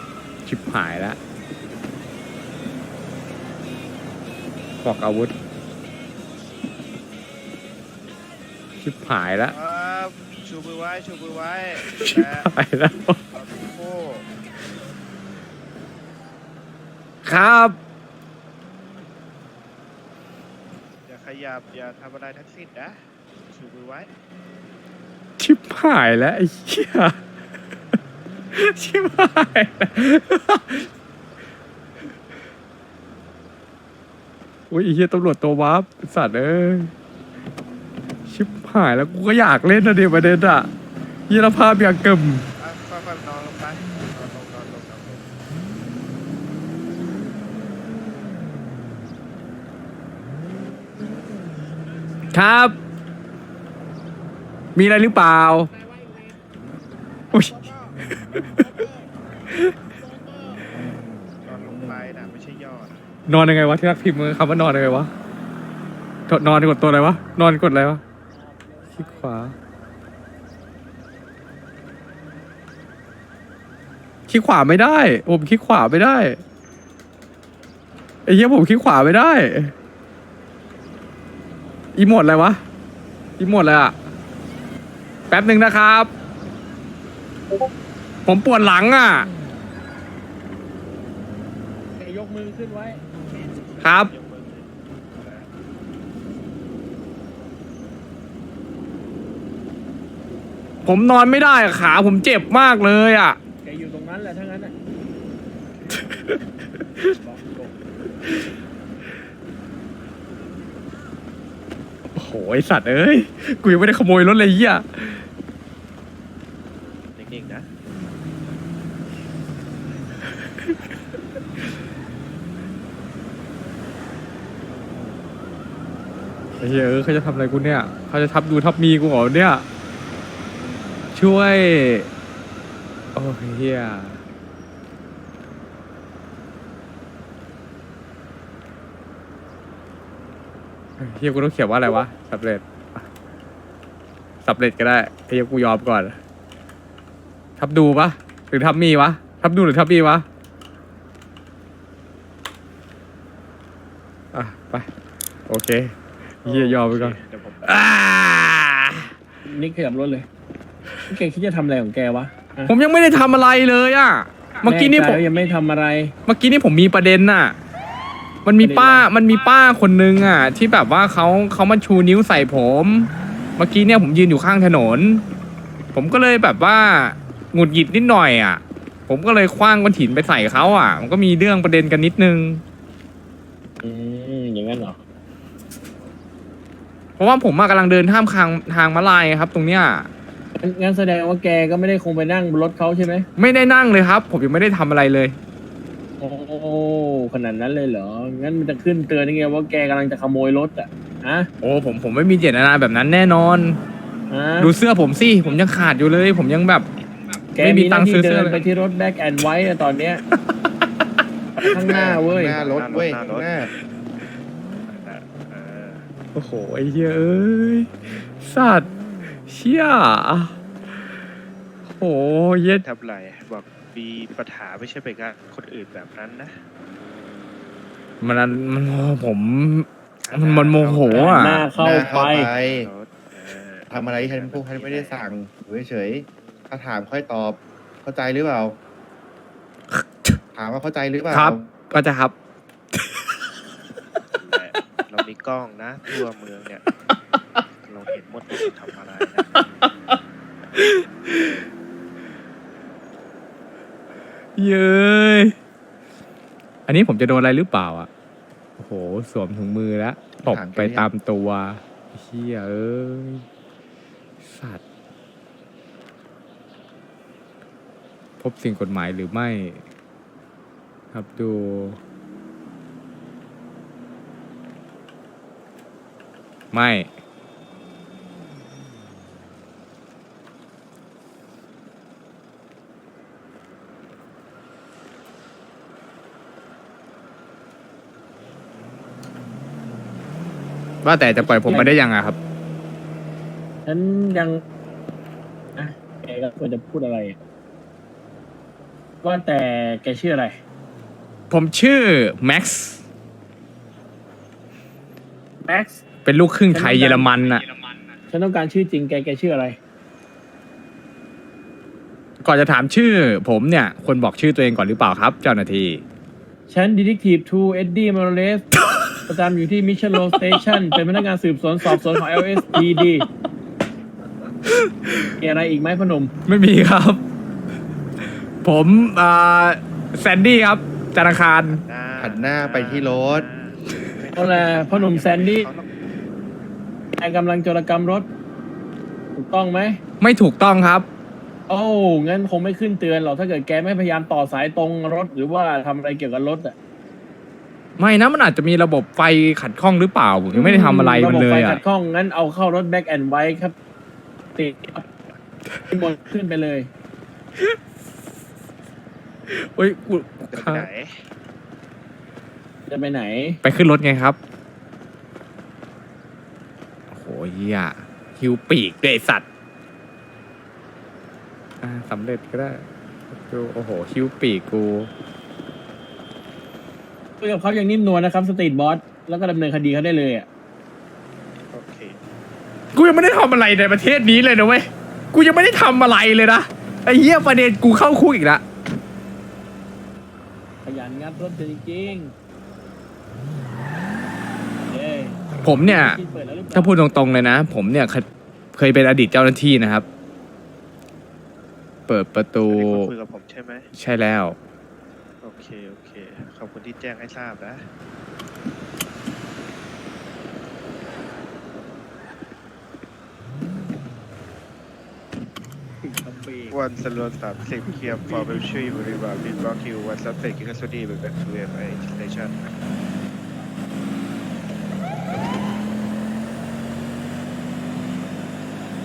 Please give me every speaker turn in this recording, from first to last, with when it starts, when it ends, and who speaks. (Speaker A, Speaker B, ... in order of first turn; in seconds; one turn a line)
Speaker A: 0.5-1.2
Speaker A: 4.8-5.3
Speaker A: 8.8-9.5
Speaker B: 9.5-12.5
Speaker A: 11.8-13.2
Speaker B: 13.3-14.3
Speaker A: 17.2-17.8
Speaker B: 21.1-24.1
Speaker A: 25.4-27.2
Speaker A: 28.5-30.9
Speaker A: 34.7-36.9
Speaker A: 38.3-40.7
Speaker A: 41.3-42.5
Speaker B: 42.6-45.3
Speaker A: 52.3-52.8
Speaker A: 54.8-55.7
Speaker A: 57.3-58.9
Speaker A: 59.5-59.8
Speaker B: 61.5-63.0
Speaker A: 63.3-65.1
Speaker A: 66.3-68.0
Speaker C: 68.3-69.3
Speaker A: 69.0-69.5
Speaker A: 74.3-76.4
Speaker A: 78.3-79.7
Speaker A: 82.0-82.6
Speaker A: 83.4-84.0
Speaker A: 85.3-86.1
Speaker A: 88.3-89.3
Speaker C: 92.0-93.0
Speaker B: 93.4-95.5
Speaker A: 93.8-94.1
Speaker A: 100.8-103.4
Speaker C: 103.6-104.7
Speaker B: 105.7-106.2
Speaker A: 106.0-106.3
Speaker C: 107.0-107.8
Speaker A: 112.2-115.3
Speaker B: 117.1-117.7
Speaker A: 126.6-129.7
Speaker A: 131.1-132.1
Speaker A: 133.2-134.2
Speaker A: 141.0-143.1
Speaker A: 144.4-146.2
Speaker A: 147.6-150.3
Speaker A: 154.3-154.9
Speaker A: 155.5-159.1
Speaker B: 156.4-157.9
Speaker C: 159.4-160.3
Speaker C: 161.1-162.7
Speaker A: 162.7-165.2
Speaker C: 164.6-166.1
Speaker A: 166.3-167.6
Speaker A: 168.4-175.2
Speaker C: 168.6-169.1
Speaker A: 175.9-182.6
Speaker C: 183.8-185.0
Speaker A: 187.2-190.1
Speaker C: 190.6-193.3
Speaker A: 193.4-195.4
Speaker C: 196.2-201.5
Speaker A: 201.6-203.8
Speaker C: 204.3-204.7
Speaker A: 204.6-206.9
Speaker A: 207.6-208.6
Speaker C: 207.6-210.2
Speaker C: 211.6-212.6
Speaker D: 211.8-213.7
Speaker B: 212.5-213.7
Speaker B: 214.9-216.1
Speaker A: 216.3-218.9
Speaker A: 219.5-220.6
Speaker A: 221.9-222.8
Speaker B: 222.8-226.6
Speaker A: 228.2-231.7
Speaker B: 230.2-235.2
Speaker C: 231.1-232.5
Speaker D: 231.8-232.9
Speaker D: 233.9-238.8
Speaker B: 236.4-236.7
Speaker A: 239.9-240.4
Speaker D: 240.6-241.7
Speaker A: 241.3-242.3
Speaker B: 244.4-246.9
Speaker B: 247.8-249.7
Speaker A: 249.6-250.2
Speaker A: 250.8-251.6
Speaker A: 254.6-255.6
Speaker A: 256.9-258.1
Speaker A: 258.8-263.5
Speaker D: 260.4-261.1
Speaker A: 264.4-264.8
Speaker A: 268.4-269.8
Speaker A: 271.1-272.0
Speaker A: 276.7-277.1
Speaker A: 291.0-292.4
Speaker C: 291.4-292.0
Speaker C: 293.9-294.6
Speaker C: 295.8-297.4
Speaker C: 299.2-300.6
Speaker A: 301.5-303.0
Speaker C: 305.6-306.0
Speaker A: 306.2-307.7
Speaker C: 306.7-307.3
Speaker C: 308.3-309.8
Speaker A: 312.4-316.0
Speaker C: 316.7-318.7
Speaker C: 319.3-323.3
Speaker A: 324.7-325.3
Speaker C: 325.4-326.3
Speaker A: 326.5-327.2
Speaker A: 328.6-331.8
Speaker B: 331.7-336.0
Speaker D: 332.2-333.5
Speaker C: 334.4-335.7
Speaker C: 337.2-338.3
Speaker C: 339.4-340.0
Speaker A: 340.2-341.1
Speaker C: 341.7-346.8
Speaker A: 348.0-351.8
Speaker C: 350.5-353.8
Speaker C: 354.6-355.1
Speaker C: 355.9-356.9
Speaker A: 359.5-360.9
Speaker B: 360.5-361.2
Speaker C: 362.9-363.6
Speaker A: 363.6-364.4
Speaker A: 367.1-369.5
Speaker A: 371.8-375.1
Speaker C: 377.4-380.5
Speaker B: 381.7-382.2
Speaker A: 382.9-388.6
Speaker C: 390.9-392.3
Speaker C: 394.9-397.0
Speaker A: 395.6-396.2
Speaker A: 396.7-400.1
Speaker A: 402.1-403.1
Speaker B: 402.7-403.9
Speaker A: 403.9-404.6
Speaker B: 405.4-407.9
Speaker C: 416.0-416.8
Speaker B: 416.7-422.7
Speaker C: 417.9-418.7